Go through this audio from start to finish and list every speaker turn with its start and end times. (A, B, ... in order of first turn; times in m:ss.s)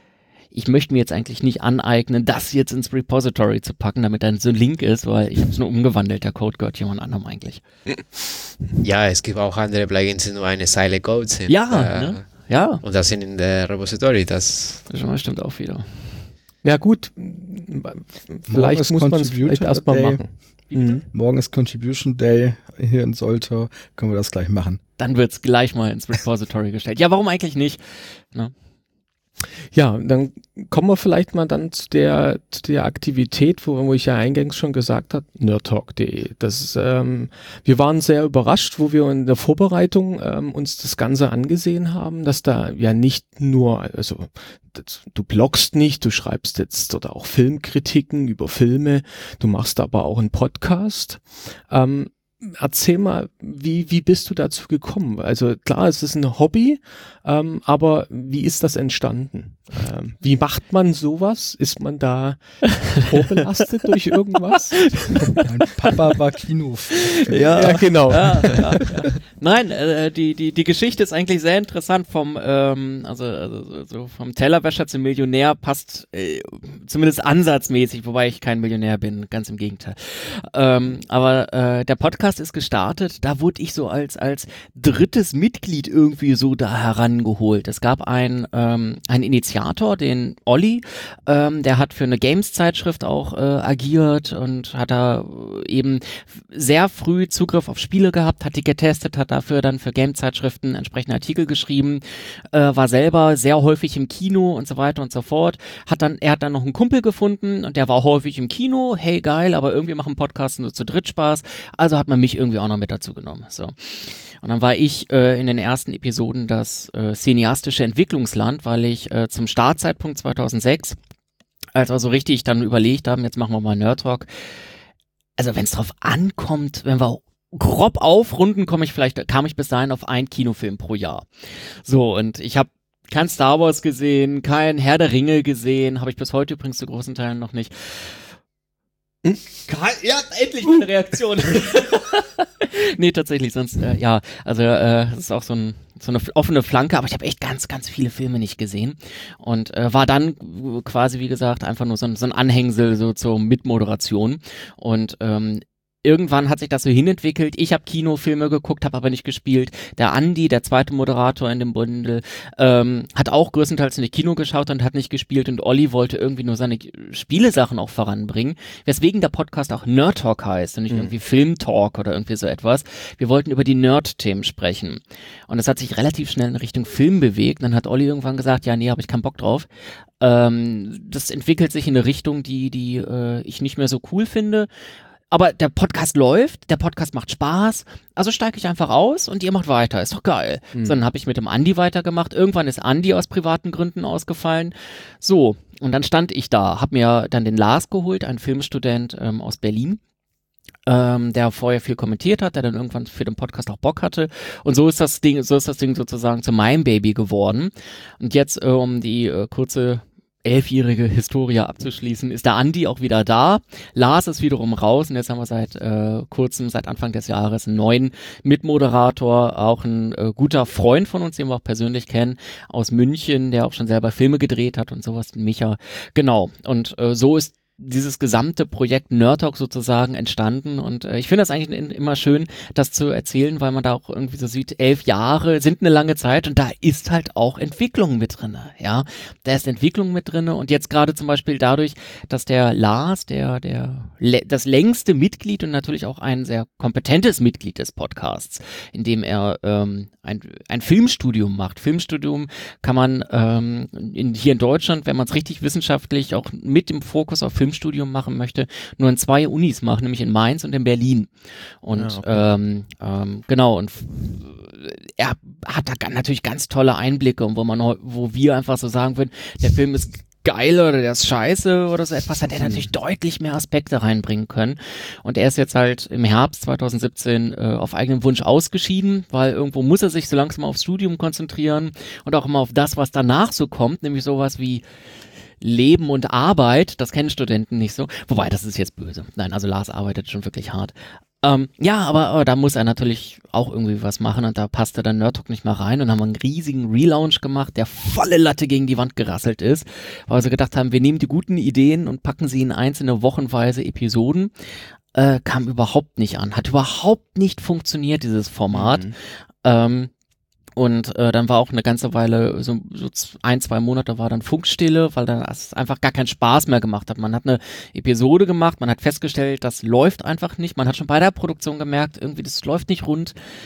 0:00.5-0:07.6 A
0:08.8-0:14.8 B
0:11.5-0:12.8 A
0:14.9-0:16.2 A
0:16.6-0:21.0 C
0:18.5-0:20.6 D
0:20.7-0:21.0 A
0:21.1-0:24.8 D
0:25.0-0:28.5 A
0:29.7-1:05.5 C
1:05.5-1:08.8 D
1:07.0-2:01.0 A
1:07.6-1:08.8 C
2:01.8-2:04.3 A
2:05.4-2:11.3 A
2:11.8-2:18.3 A
2:19.6-2:59.7 A
3:00.2-3:04.7 A
3:05.3-3:20.0 A
3:20.9-4:21.3 A
4:21.8-4:44.8 A
4:22.0-4:22.5 C
4:32.6-4:32.9 C
4:45.6-5:04.5 A
5:05.1-5:09.1 A
5:08.7-5:09.1 C
5:09.6-5:10.1 A
5:10.8-5:23.4 A